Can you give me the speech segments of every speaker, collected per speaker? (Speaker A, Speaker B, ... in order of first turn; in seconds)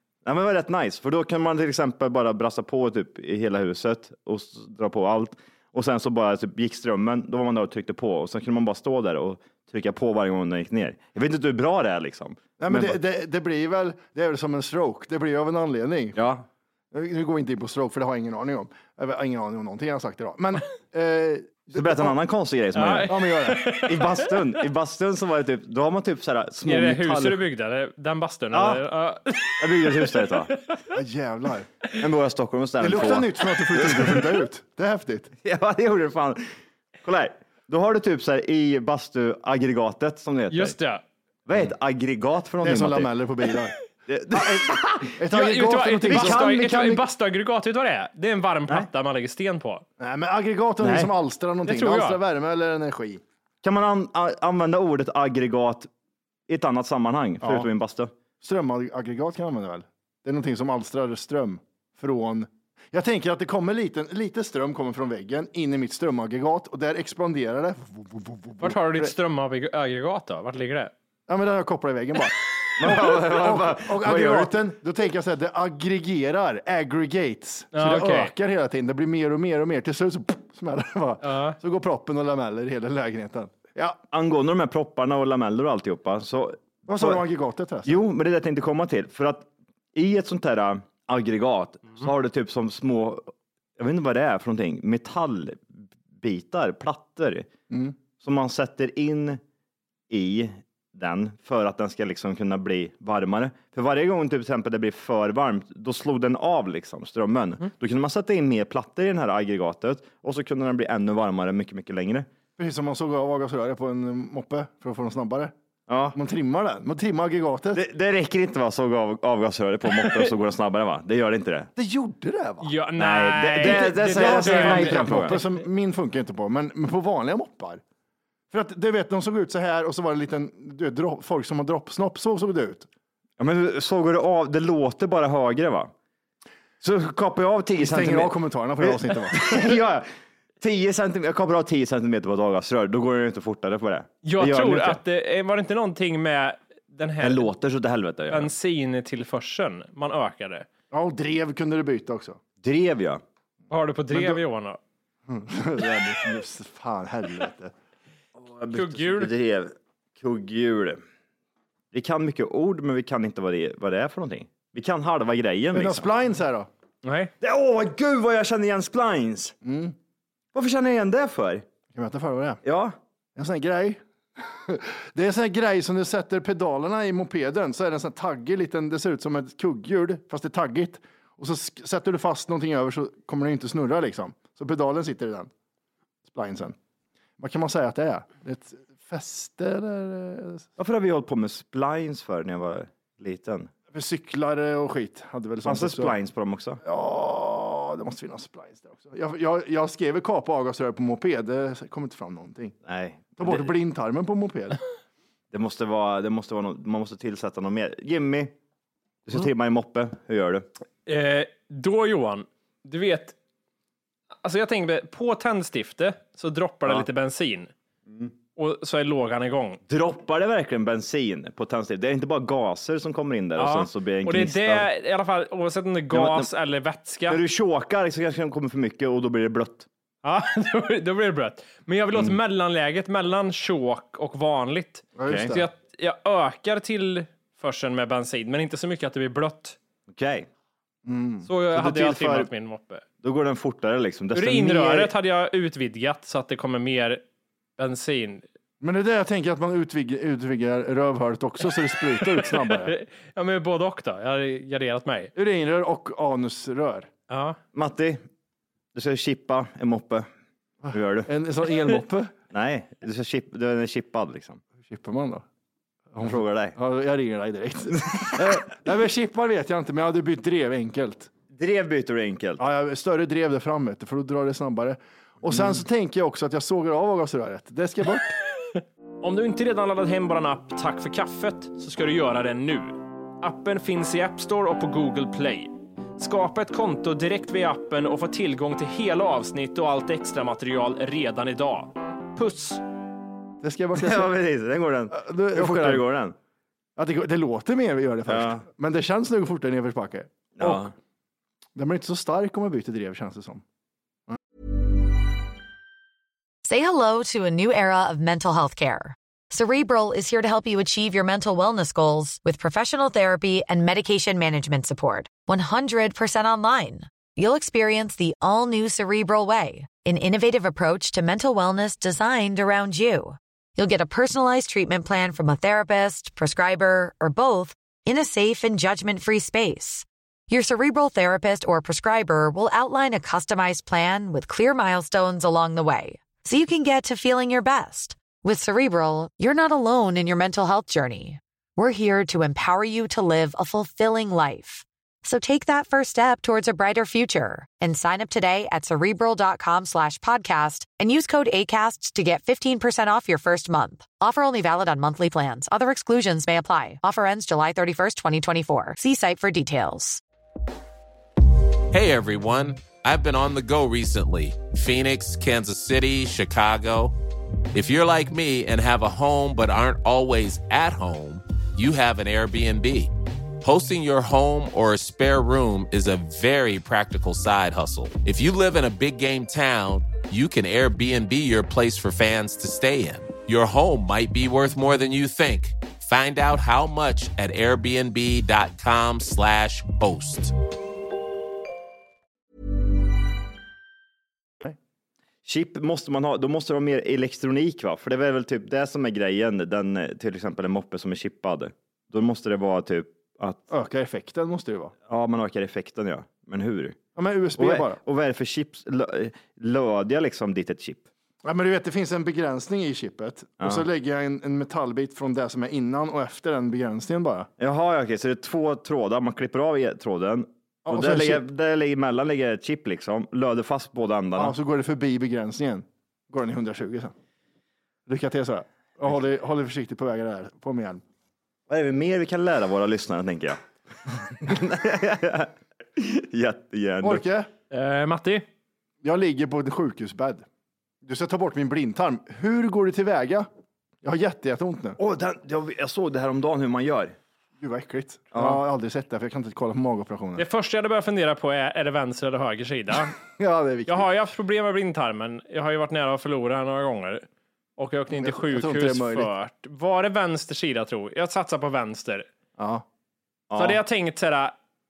Speaker A: 0.2-13.0, 16.1-16.4, 21.7-27.4, 28.5-28.8, 29.6-30.5, 31.9-34.4, 35.4-36.5, 37.0-40.8, 41.5-43.1, 44.1-45.1, 46.1-46.8, 50.8-51.1, 53.6-55.9, 56.5-58.1, 72.8-74.5, 84.1-87.2, 87.8-97.5, 98.2-99.4, 100.1-112.3, 115.9-116.2, 117.7-121.7, 123.0-125.4, 133.4-135.9, 136.8-140.1, 140.6-145.0, 147.2-148.5, 152.6-153.2, 158.4-161.0, 161.9-166.1, 167.4-169.5, 170.5-171.6, 172.6-172.9, 190.8-193.7, 195.6-196.8, 202.8-203.8, 205.5-208.5, 209.2-210.7, 219.9-224.9, 226.1-226.5, 227.3-229.9, 235.3-235.6, 240.1-240.5, 241.7-242.5, 243.2-245.1, 257.7-258.2, 258.9-260.3, 260.9-261.3, 262.5-264.6, 266.2-266.8, 268.1-268.6, 271.5-272.6, 275.5-275.8, 293.9-296.3, 298.2-298.6, 300.6-300.9, 395.4-403.7, 405.1-407.0, 407.6-411.1, 413.6-413.8, 417.6-424.5, 431.7-437.2, 445.0-447.1, 448.3-448.6, 463.5-463.8
Speaker B: 12.6-16.2, 16.9-22.1, 23.1-23.7, 30.9-31.7, 32.8-35.3, 42.6-43.7, 44.3-47.0, 50.0-53.2, 57.4-57.7, 58.4-69.1, 71.3-84.0, 86.8-88.0, 97.7-97.9, 112.6-115.5, 116.1-117.8, 121.8-122.7, 123.6-127.8, 128.5-132.9, 137.8-139.8, 150.9-152.4, 154.1-154.4, 155.3-157.7, 165.7-166.7, 169.6-169.9, 171.9-172.6, 173.3-174.0, 174.5-185.5, 186.3-186.8, 187.4-190.7, 193.9-196.1, 196.8-202.7, 203.4-204.8, 235.2-235.7, 241.1-241.5, 248.8-252.9, 255.3-257.1, 260.8-262.3, 264.8-265.4, 266.1-271.3, 272.6-278.3, 293.6-294.3, 295.1-296.0, 296.9-300.9, 301.8-303.6, 403.7-404.9, 407.1-408.0, 411.4-417.5, 420.9-421.4, 424.4-427.1, 428.1-431.0, 437.0-437.5, 439.0-440.4, 441.0-443.5, 444.0-445.0, 447.6-450.4, 453.4-454.1, 458.2-459.3, 462.6-462.8
Speaker C: 22.7-24.3, 26.6-30.1, 40.5-41.0, 45.3-49.8, 51.6-52.2, 68.6-70.9, 77.7-78.3, 81.2-81.6, 122.6-125.4, 144.2-147.4, 148.3-150.7, 153.7-154.8, 158.7-159.3, 167.0-167.3, 211.1-213.3, 214.4-217.7, 218.6-219.8, 223.6-227.4, 230.2-239.8, 241.4-243.0, 244.3-247.2, 247.8-248.4, 252.4-255.3, 257.3-257.6, 279.2-292.8, 437.7-438.4, 450.4-453.1, 453.9-457.2, 457.8-462.3, 463.5-464.5
Speaker D: 306.6-360.2
Speaker E: 361.9-367.1, 367.7-390.5